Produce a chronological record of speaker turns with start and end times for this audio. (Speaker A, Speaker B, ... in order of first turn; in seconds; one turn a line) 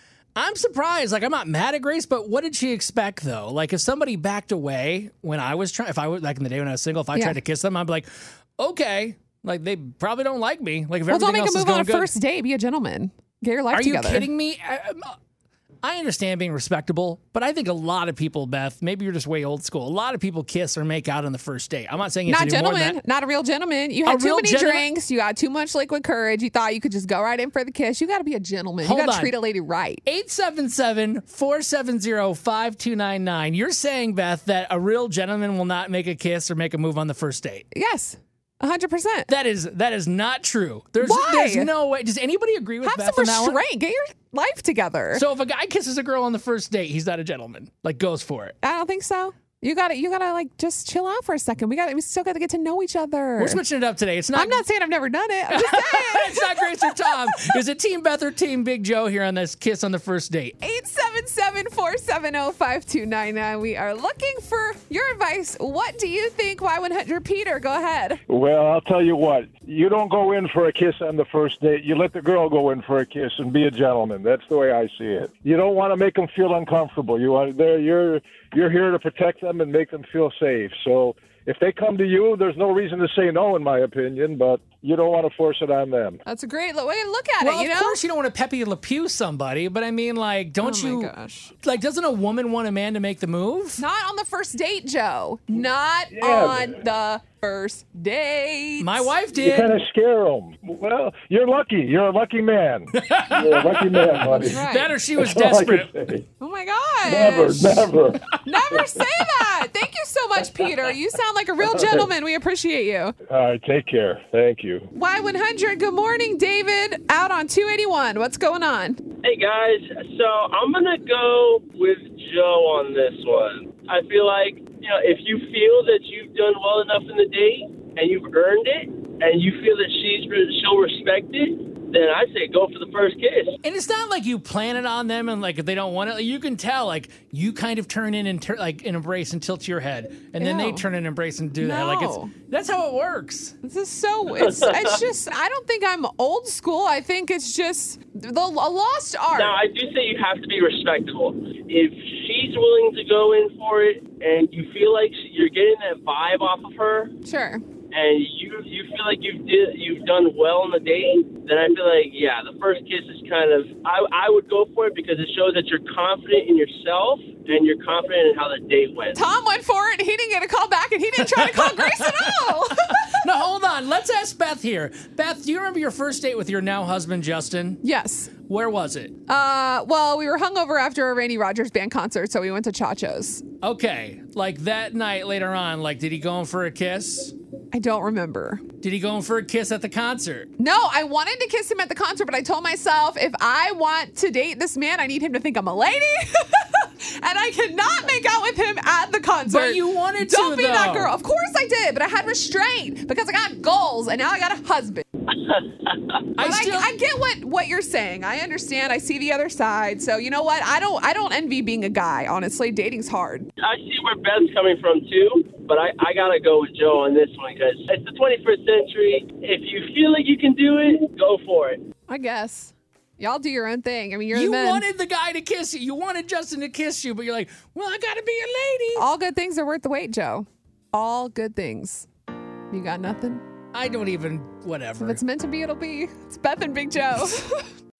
Speaker A: 0.3-12.1
Speaker B: 7.1-7.4
Speaker B: 11.1-14.3
Speaker A: 13.7-15.1
Speaker A: 15.8-23.0
Speaker B: 22.2-30.0
Speaker A: 24.1-24.9
Speaker A: 28.8-29.4
Speaker A: 30.0-37.7
Speaker B: 37.7-39.3
Speaker A: 39.3-43.6
Speaker B: 41.0-41.7
Speaker B: 42.8-45.2
Speaker A: 45.1-48.5
Speaker B: 48.6-53.6
Speaker A: 53.4-54.6
Speaker B: 54.3-57.2
Speaker A: 55.5-60.6
Speaker B: 60.6-68.2
Speaker C: 68.3-86.2
Speaker B: 86.2-88.0
Speaker A: 87.4-91.1
Speaker B: 90.6-91.5
Speaker A: 91.6-93.8
Speaker B: 93.8-99.1
Speaker C: 96.1-96.7
Speaker A: 98.8-99.8
Speaker C: 99.3-104.6
Speaker A: 102.9-106.0
Speaker B: 104.3-104.9
Speaker C: 105.2-106.2
Speaker B: 106.4-107.9
Speaker C: 107.0-109.0
Speaker B: 108.4-113.1
Speaker C: 111.7-112.0
Speaker C: 113.3-114.9
Speaker B: 114.9-119.0
Speaker D: 119.2-133.5
Speaker A: 133.6-143.5
Speaker B: 140.4-140.9
Speaker B: 141.6-142.3
Speaker B: 143.6-149.6
Speaker D: 144.4-145.0
Speaker D: 149.3-157.1
Speaker B: 157.2-157.6
Speaker D: 157.9-169.2
Speaker B: 169.1-173.1
Speaker A: 171.2-177.8
Speaker B: 177.8-178.3
Speaker A: 178.5-179.1
Speaker B: 179.3-183.4
Speaker A: 183.6-187.3
Speaker B: 187.7-188.6
Speaker A: 188.8-190.5
Speaker B: 190.6-205.0
Speaker A: 199.5-201.1
Speaker D: 205.3-206.2
Speaker A: 206.3-206.9
Speaker B: 206.4-213.5
Speaker D: 213.6-221.8
Speaker B: 222.1-224.8
Speaker A: 224.3-229.0
Speaker B: 228.9-232.1
Speaker B: 232.7-233.4
Speaker A: 233.7-235.2
Speaker B: 235.0-237.5